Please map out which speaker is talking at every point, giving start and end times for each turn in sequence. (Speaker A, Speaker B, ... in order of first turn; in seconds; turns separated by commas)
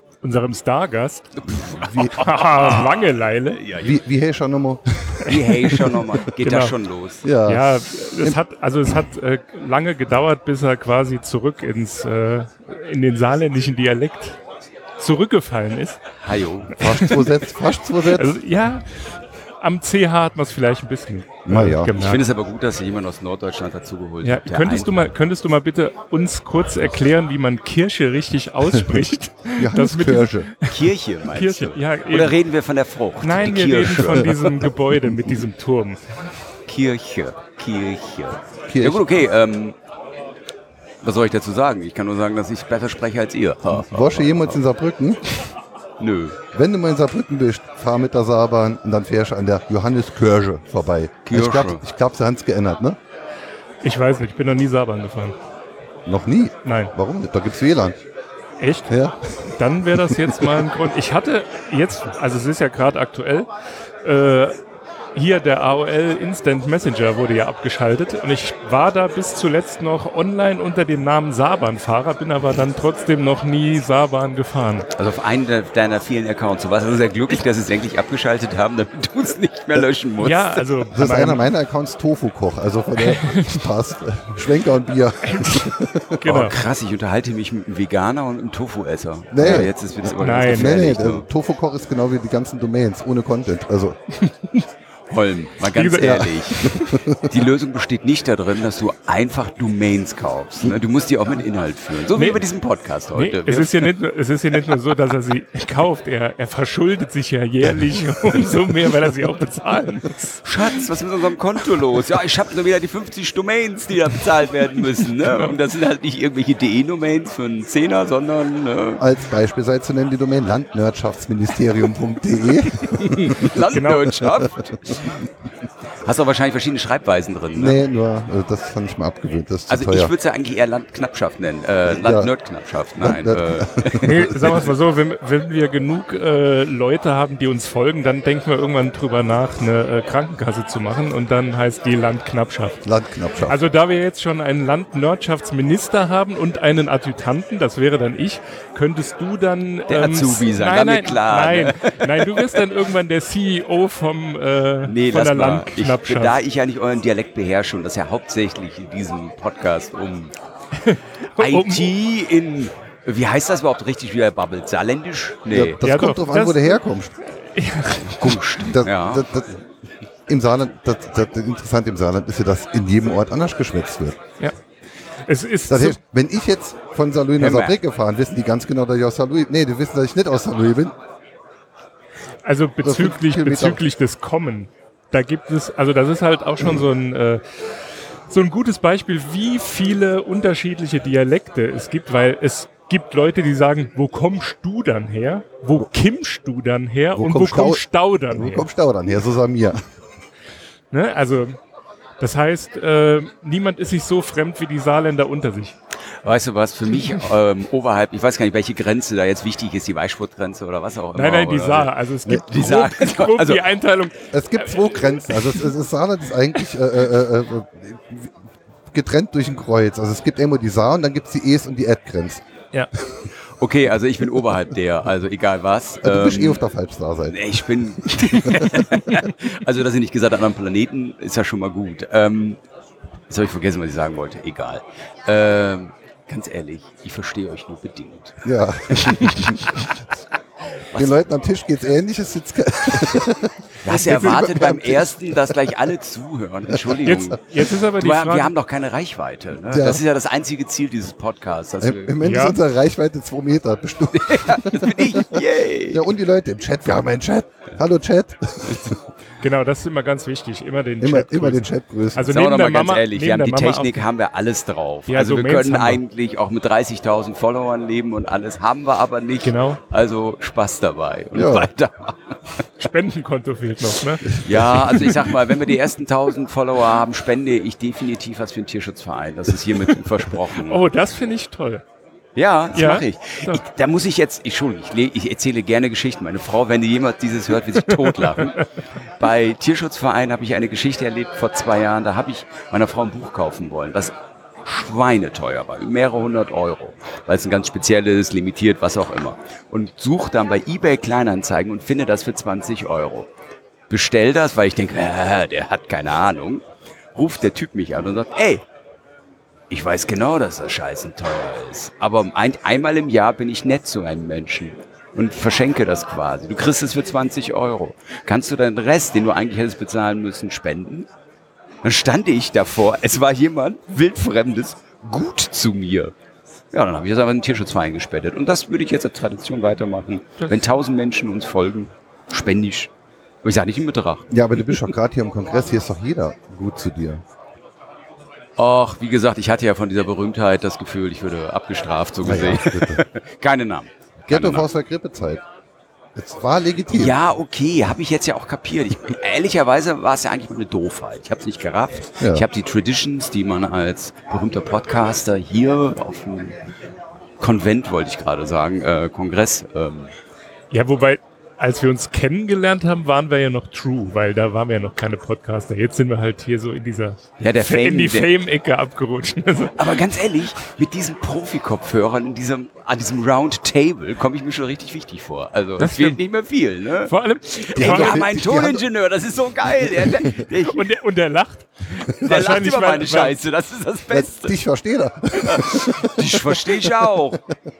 Speaker A: 0.2-3.6, Speaker B: 1.4-4.0, Speaker C: 1.8-2.1, Speaker C: 3.8-6.0, Speaker B: 5.2-7.3, Speaker A: 5.3-5.8, Speaker A: 6.4-6.7, Speaker C: 7.2-7.7, Speaker A: 7.5-14.4, Speaker A: 15.0-16.0, Speaker B: 16.2-16.7, Speaker C: 16.7-18.4, Speaker A: 16.8-17.3, Speaker A: 18.0-22.2, Speaker C: 21.4-21.9, Speaker B: 21.9-24.9, Speaker A: 24.2-32.3, Speaker C: 28.7-30.5, Speaker B: 30.6-34.7, Speaker A: 33.2-36.0, Speaker B: 36.7-39.8, Speaker C: 38.7-39.0, Speaker B: 41.0-44.6, Speaker C: 43.7-45.2, Speaker B: 46.0-46.4, Speaker C: 46.5-53.0, Speaker B: 51.2-51.8, Speaker A: 53.8-55.4, Speaker C: 56.0-58.0, Speaker A: 56.6-56.9, Speaker A: 58.6-58.9, Speaker C: 58.9-59.2, Speaker A: 59.5-63.5, Speaker C: 60.0-60.5, Speaker A: 64.0-64.5, Speaker A: 65.1-74.9, Speaker B: 74.9-80.6, Speaker A: 80.2-81.4, Speaker C: 80.9-86.2, Speaker A: 83.0-83.6, Speaker A: 85.2-86.6, Speaker B: 86.2-91.2, Speaker C: 89.3-94.0, Speaker A: 90.2-90.8, Speaker A: 94.2-94.6, Speaker B: 95.1-103.9, Speaker A: 95.7-97.0, Speaker C: 96.7-97.3, Speaker A: 102.2-102.4, Speaker A: 103.1-110.4, Speaker B: 110.4-119.0, Speaker A: 115.3-115.5, Speaker C: 119.0-123.6, Speaker B: 122.8-125.3, Speaker A: 123.7-124.2, Speaker C: 124.2-124.5, Speaker B: 126.0-127.8, Speaker C: 127.5-130.1, Speaker B: 129.7-134.7, Speaker C: 131.9-132.3, Speaker C: 133.0-134.3, Speaker A: 134.0-142.8, Speaker C: 142.8-143.6, Speaker A: 143.5-156.4, Speaker B: 149.9-152.6, Speaker B: 154.8-160.3, Speaker A: 160.8-161.9, Speaker B: 161.4-165.8, Speaker C: 165.5-167.1, Speaker A: 165.8-166.8, Speaker A: 167.4-168.4, Speaker B: 168.1-169.3, Speaker C: 168.7-169.6, Speaker C: 170.3-174.2, Speaker A: 175.3-176.0, Speaker C: 175.7-180.9, Speaker B: 177.4-177.7, Speaker A: 182.4-187.4, Speaker C: 182.8-183.8, Speaker A: 188.3-198.7, Speaker C: 197.1-199.8, Speaker A: 200.9-201.6, Speaker A: 202.2-205.7, Speaker B: 206.2-213.6, Speaker A: 211.1-215.7, Speaker C: 214.3-218.3, Speaker C: 218.9-222.4, Speaker B: 223.6-226.6, Speaker C: 226.0-227.5, Speaker B: 227.3-232.6, Speaker C: 228.4-229.2, Speaker B: 233.3-239.8, Speaker C: 238.4-239.6, Speaker B: 240.9-241.2, Speaker C: 240.9-245.9, Speaker B: 242.9-243.2, Speaker B: 243.8-252.2, Speaker A: 244.0-244.5, Speaker A: 246.9-248.5, Speaker C: 249.7-250.0, Speaker C: 251.8-259.0, Speaker A: 252.2-252.6, Speaker B: 254.1-256.1, Speaker A: 259.4-264.0, Speaker C: 261.0-262.3, Speaker B: 262.3-272.6, Speaker A: 265.1-266.0, Speaker A: 269.4-269.8, Speaker C: 271.3-271.7, Speaker A: 272.8-274.4, Speaker B: 274.3-280.8, Speaker C: 274.3-275.3, Speaker A: 280.6-281.8, Speaker B: 282.3-294.1, Speaker A: 282.7-283.6, Speaker A: 287.9-288.6, Speaker B: 294.6-303.3, Speaker B: 303.9-306.6, Speaker B: 307.1-308.6, Speaker B: 309.7-321.1, Speaker B: 321.8-326.1, Speaker B: 326.7-332.9, Speaker B: 333.4-334.9, Speaker C: 334.3-337.2, Speaker B: 338.6-344.7, Speaker C: 342.2-343.0, Speaker C: 344.3-345.4, Speaker C: 346.1-347.1, Speaker B: 346.9-356.6, Speaker C: 352.2-352.5, Speaker B: 357.4-360.1, Speaker A: 360.7-370.0, Speaker B: 367.4-368.3, Speaker B: 369.8-380.9, Speaker A: 375.8-376.2, Speaker A: 377.0-378.2, Speaker C: 377.8-378.8, Speaker C: 379.8-380.4, Speaker A: 380.6-383.4, Speaker B: 382.0-384.5, Speaker C: 384.1-387.3, Speaker B: 385.3-387.4